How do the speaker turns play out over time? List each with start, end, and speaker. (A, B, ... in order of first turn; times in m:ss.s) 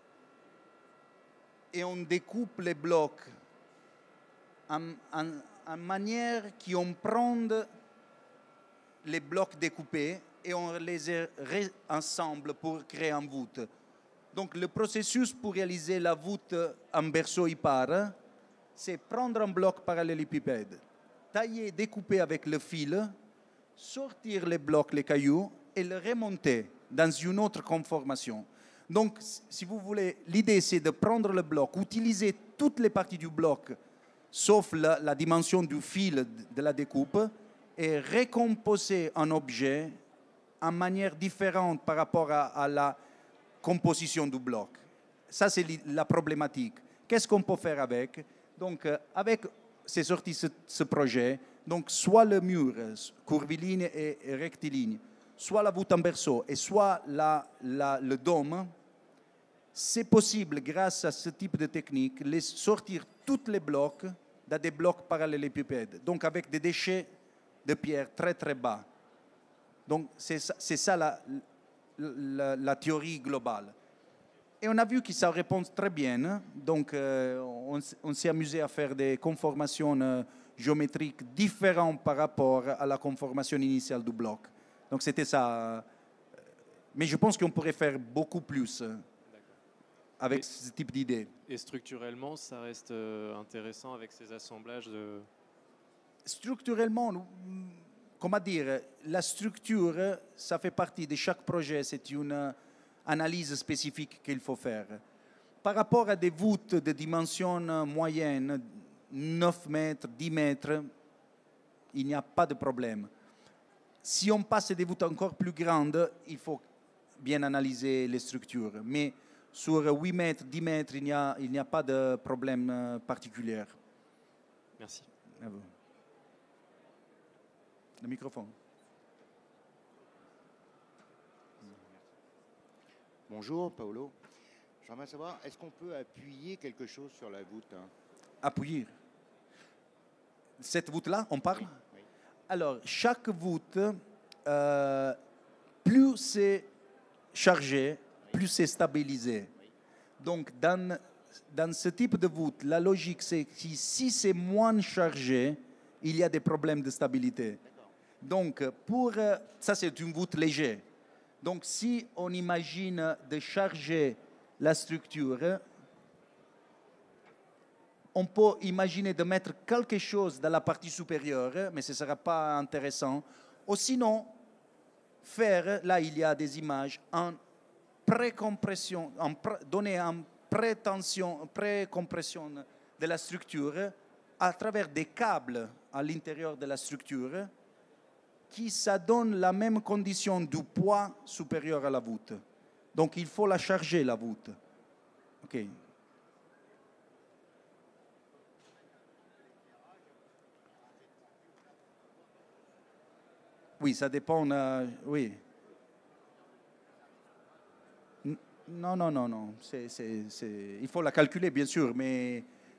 0:01.7-0:03.3 A
0:04.7-0:07.7 A
0:09.0-0:13.7 A
0:14.3-0:18.2 A
0:18.8-0:23.1 A
0:23.8-0:33.8 A
0:34.3-0:40.0 A
0:40.6-0:43.0 A
0:43.6-0:58.7 A
0:59.7-1:07.1 A
1:07.6-1:08.9 A
1:09.9-1:11.4 A
1:12.0-1:13.8 A
1:14.6-1:25.9 A
1:26.9-1:29.0 A
1:30.2-1:31.3 A
1:31.5-1:35.3 B
1:36.2-1:45.0 A
1:45.6-1:50.9 A
1:51.9-1:53.1 A
1:54.0-1:56.7 A
1:57.2-2:03.8 A
2:04.8-2:05.1 B
2:05.4-2:05.7 A
2:08.0-2:08.6 A
2:11.7-2:11.9 C
2:13.3-2:14.1 C
2:14.8-2:17.9 C
2:18.4-2:18.9 A
2:20.6-2:21.8 A
2:22.5-2:25.2 A
2:25.8-2:26.7 A
2:27.3-2:29.5 A
2:30.2-2:37.6 A
2:37.6-2:37.9 C
2:38.2-2:40.8 A
2:41.4-2:45.6 A
2:48.1-2:54.4 A
2:55.2-2:57.4 A
2:58.1-3:07.5 A
3:08.5-3:12.4 A
3:12.9-3:14.6 A
3:15.4-3:15.8 A
3:23.8-3:25.4 A
3:28.2-3:32.5 A